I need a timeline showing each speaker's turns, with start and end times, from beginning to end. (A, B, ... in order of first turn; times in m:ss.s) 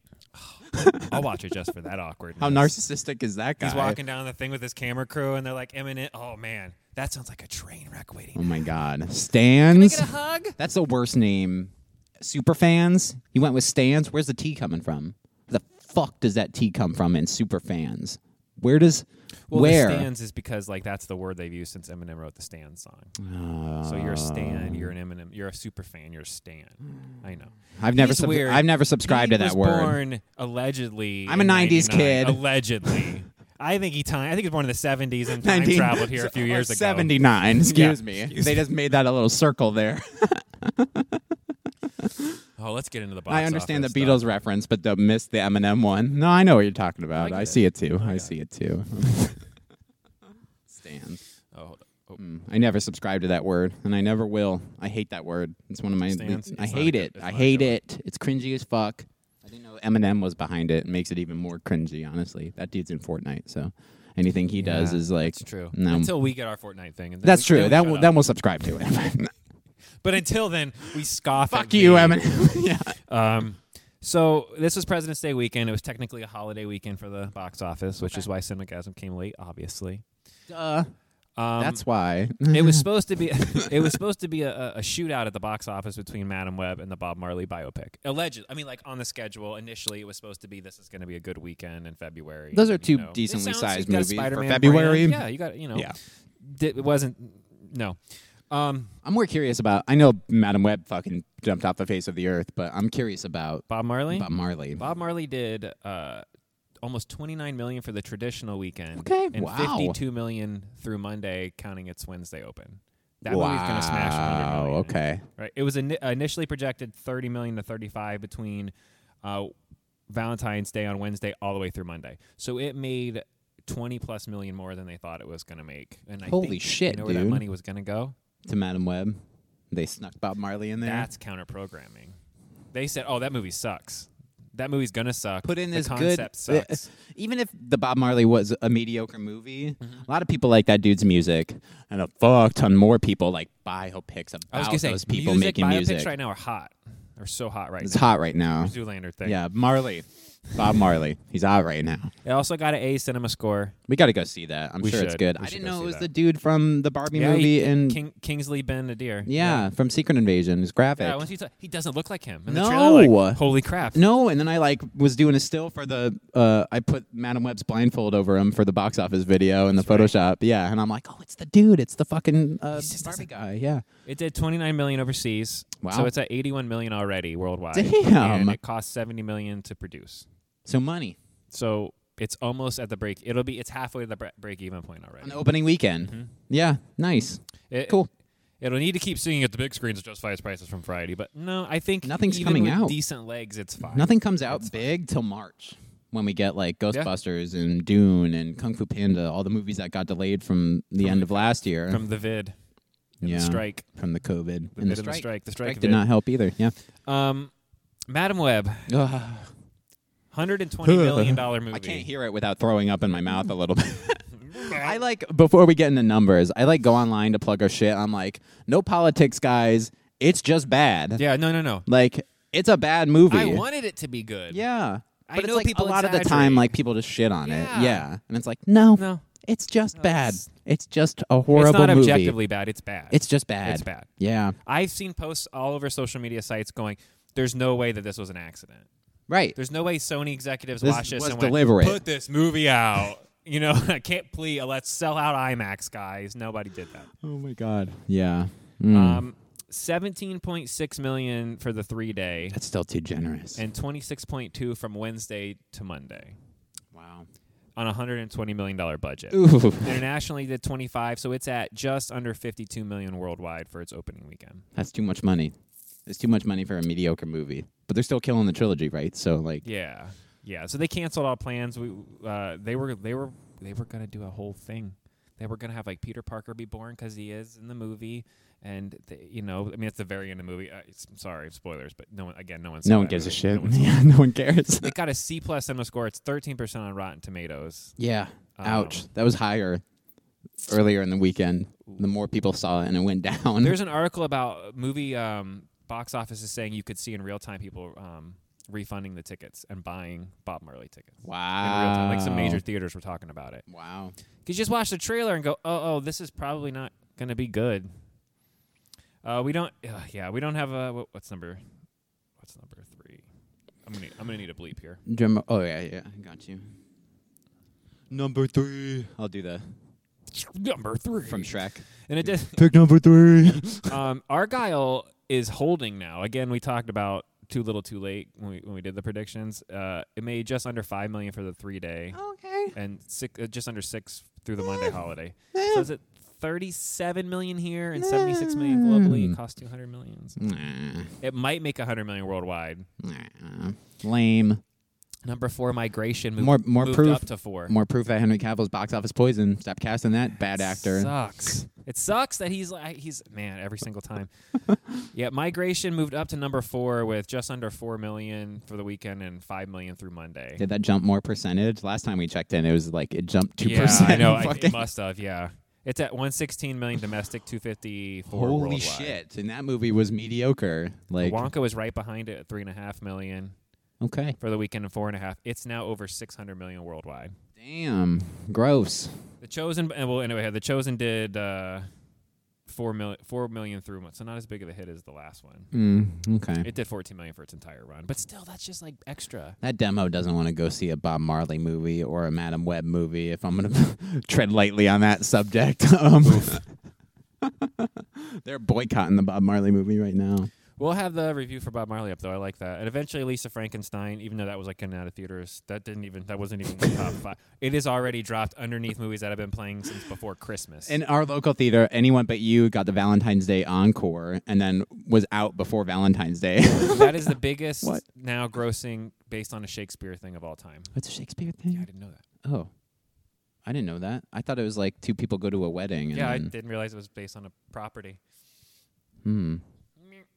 0:00.4-0:02.8 A
0:00.7-0:01.2 B
0:02.4-0:04.0 B
0:03.6-0:08.7 A
0:08.4-0:20.1 B
0:09.6-0:10.6 A
0:19.5-0:23.2 A
0:23.2-0:24.9 B
0:23.8-0:38.7 A
0:27.8-0:30.0 B
0:31.3-0:33.1 B
0:35.4-0:41.2 B
0:42.0-0:42.4 B
0:42.6-0:44.3 A
0:43.3-0:49.5 B
0:47.2-0:48.3 A
0:50.7-0:51.2 B
0:51.5-0:52.2 A
0:52.2-1:06.1 B
0:56.1-0:57.8 A
1:04.5-1:08.2 A
1:07.2-1:09.3 B
1:10.0-1:12.3 A
1:11.4-1:13.0 B
1:13.1-1:20.0 A
1:20.5-1:20.9 B
1:21.4-1:21.8 A
1:21.6-1:22.8 B
1:22.5-1:38.0 A
1:23.6-1:24.0 B
1:32.5-1:35.2 B
1:38.5-1:39.0 A
1:39.0-1:44.8 B
1:43.7-1:46.2 A
1:46.8-1:58.7 A
1:49.0-1:50.0 B
1:53.3-1:55.2 B
1:59.2-1:59.5 A
2:00.1-2:08.2 A
2:06.3-2:07.4 B
2:08.4-2:09.2 B
2:09.7-2:11.1 B
2:10.8-2:12.2 A
2:12.7-2:16.9 A
2:15.4-2:26.1 B
2:24.5-2:29.4 A
2:27.8-2:32.1 B
2:32.2-2:33.8 A
2:33.9-2:38.0 B
2:34.8-2:36.1 A
2:37.1-2:39.7 A
2:39.3-2:41.2 B
2:41.0-2:44.0 A
2:42.5-2:43.4 B
2:43.9-2:53.8 B
2:49.8-2:50.1 A
2:52.7-2:53.3 A
2:54.1-3:00.3 A
2:55.8-2:56.1 B
2:57.7-2:58.6 B
3:00.7-3:01.2 B
3:01.5-3:05.5 A
3:05.2-3:08.1 B
3:06.1-3:06.3 A
3:07.7-3:08.0 A
3:08.6-3:14.9 A
3:12.0-3:13.0 B
3:13.9-3:22.0 B
3:21.0-3:22.6 A
3:23.2-3:23.8 A
3:23.2-3:26.7 B
3:24.8-3:26.0 A
3:27.1-3:27.5 A
3:28.1-3:28.9 A
3:28.9-3:29.5 B
3:30.3-3:32.1 A
3:30.8-3:41.2 B
3:34.4-3:35.0 A
3:41.2-3:41.9 A
3:41.9-3:43.6 B
3:43.3-3:44.6 A
3:44.5-3:52.4 B
3:45.3-3:46.8 A
3:47.4-3:48.1 A
3:49.0-3:49.2 A
3:49.9-3:50.5 A
3:51.5-3:54.1 A
3:53.1-3:54.6 B
3:54.6-3:58.9 A
3:59.3-3:59.6 B
3:59.6-4:07.1 A
4:00.8-4:02.0 B
4:07.2-4:09.2 B
4:08.9-4:12.6 A
4:12.5-4:13.6 B
4:13.6-4:16.4 A
4:16.9-4:17.3 B
4:17.8-4:24.7 A
4:19.3-4:20.0 B
4:24.8-4:25.5 B
4:26.1-4:29.6 B
4:29.6-4:44.2 A
4:42.8-4:44.9 B
4:44.8-4:48.0 A
4:48.0-4:49.8 B
4:48.6-4:49.1 A
4:50.7-4:53.8 B
4:53.6-5:03.6 A
5:01.2-5:02.6 B
5:03.7-5:04.2 B
5:04.4-5:07.9 A
5:09.2-5:11.6 A
5:12.4-5:13.2 A
5:13.9-5:15.0 A
5:15.1-5:16.6 B
5:18.1-5:19.6 B
5:20.3-5:22.6 A
5:21.3-5:24.0 B
5:23.9-5:32.2 A
5:32.1-5:32.8 B
5:32.7-5:40.4 A
5:35.5-5:35.9 B
5:38.0-5:39.4 B
5:40.4-5:41.1 B
5:41.2-5:42.9 A
5:43.0-5:44.6 B
5:45.2-5:47.7 A
5:46.4-5:51.1 B
5:50.6-5:54.3 A
5:55.1-6:00.6 A
6:00.6-6:04.8 B
6:03.6-6:09.2 A
6:08.3-6:11.5 B
6:11.2-6:13.6 A
6:14.0-6:14.4 B
6:14.4-6:17.3 A
6:17.6-6:19.2 B
6:19.4-6:21.9 A
6:22.7-6:25.7 A
6:25.7-6:26.7 B
6:26.6-6:29.6 A
6:29.6-6:36.6 B
6:36.2-6:36.6 A
6:37.4-6:40.5 B
6:40.8-6:51.0 A
6:50.9-6:58.0 B
6:56.8-7:00.9 A
7:00.9-7:01.9 B
7:01.7-7:02.2 A
7:02.4-7:02.7 B
7:03.6-7:06.5 B
7:06.1-7:08.2 A
7:09.2-7:09.6 B